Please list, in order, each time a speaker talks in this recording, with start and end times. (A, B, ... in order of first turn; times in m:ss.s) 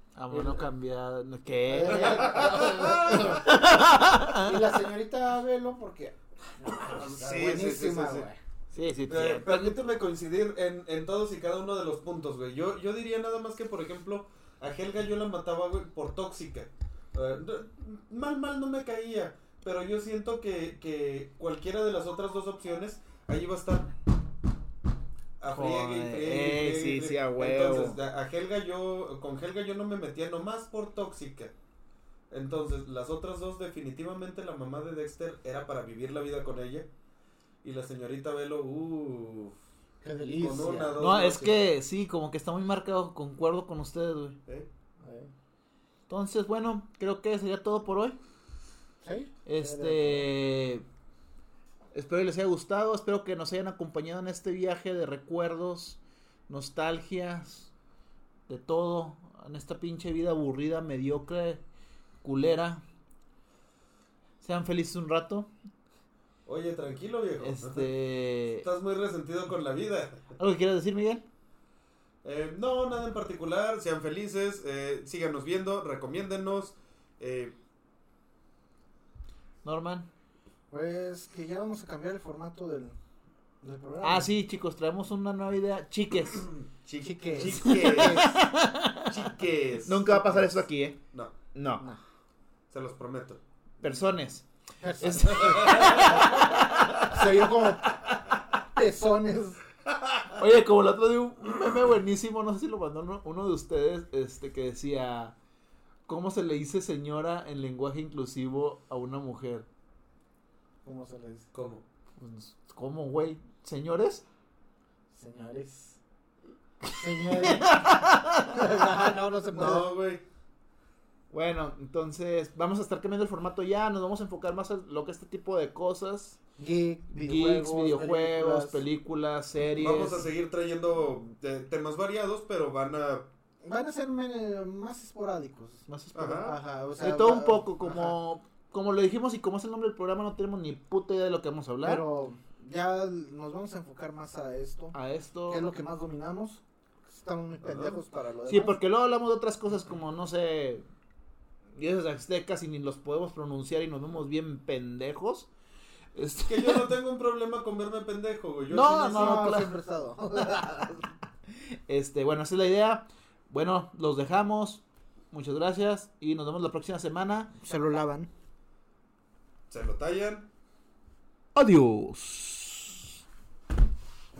0:00.2-0:04.7 A
0:00.3-0:00.7 B
0:01.7-0:08.4 B
0:02.1-0:03.4 C
0:06.8-0:08.3 C
0:08.7-0:09.9 A
0:09.1-0:23.9 C
0:25.4-0:31.5 C
0:25.5-0:28.0 A
0:32.3-0:36.9 C
0:37.6-0:39.6 C
0:40.0-0:41.0 B
0:40.4-0:41.5 C
0:41.0-0:44.4 A
0:45.0-0:45.3 B
0:46.1-0:48.2 A
0:49.0-0:50.3 B
0:49.4-0:50.8 A
0:51.9-0:57.7 A
0:58.5-1:01.6 A
1:02.2-1:02.8 A
1:04.4-1:05.5 A
1:06.4-1:07.8 C
1:07.4-1:08.7 A
1:08.6-1:10.3 C
1:10.4-1:11.2 A
1:12.2-1:17.6 C
1:19.6-1:20.1 A
1:20.7-1:23.0 B
1:23.6-1:24.3 B
1:24.0-1:26.5 A
1:26.8-1:28.3 C
1:27.0-1:28.4 B
1:27.5-1:29.1 A
1:29.1-1:30.6 C
1:29.8-1:31.0 A
1:31.5-1:31.9 A
1:32.7-1:33.4 C
1:33.8-1:34.4 A
1:34.8-1:39.6 B
1:35.0-1:37.5 A
1:40.4-1:45.3 A
1:46.1-1:49.7 A
1:50.8-1:51.5 B
1:51.5-1:51.8 C
1:52.2-1:54.2 A
1:55.1-1:56.0 B
1:56.9-1:58.6 A
1:56.9-1:59.9 B
1:59.5-2:00.2 C
2:01.3-2:06.4 A
2:06.6-2:08.8 B
2:07.1-2:10.3 A
2:09.8-2:13.3 C
2:13.6-2:15.8 B
2:15.9-2:22.0 A
2:16.1-2:16.6 C
2:16.4-2:18.2 B
2:21.8-2:24.9 B
2:24.9-2:25.7 A
2:25.5-2:28.8 B
2:27.6-2:27.9 C
2:28.5-2:30.8 A
2:31.8-2:35.5 A
2:36.1-2:36.9 A
2:36.5-2:39.4 C
2:38.7-2:39.7 A
2:38.8-2:41.1 B
2:41.9-2:47.5 A
2:47.6-2:48.3 B
2:49.7-2:50.5 C
2:51.5-2:53.1 A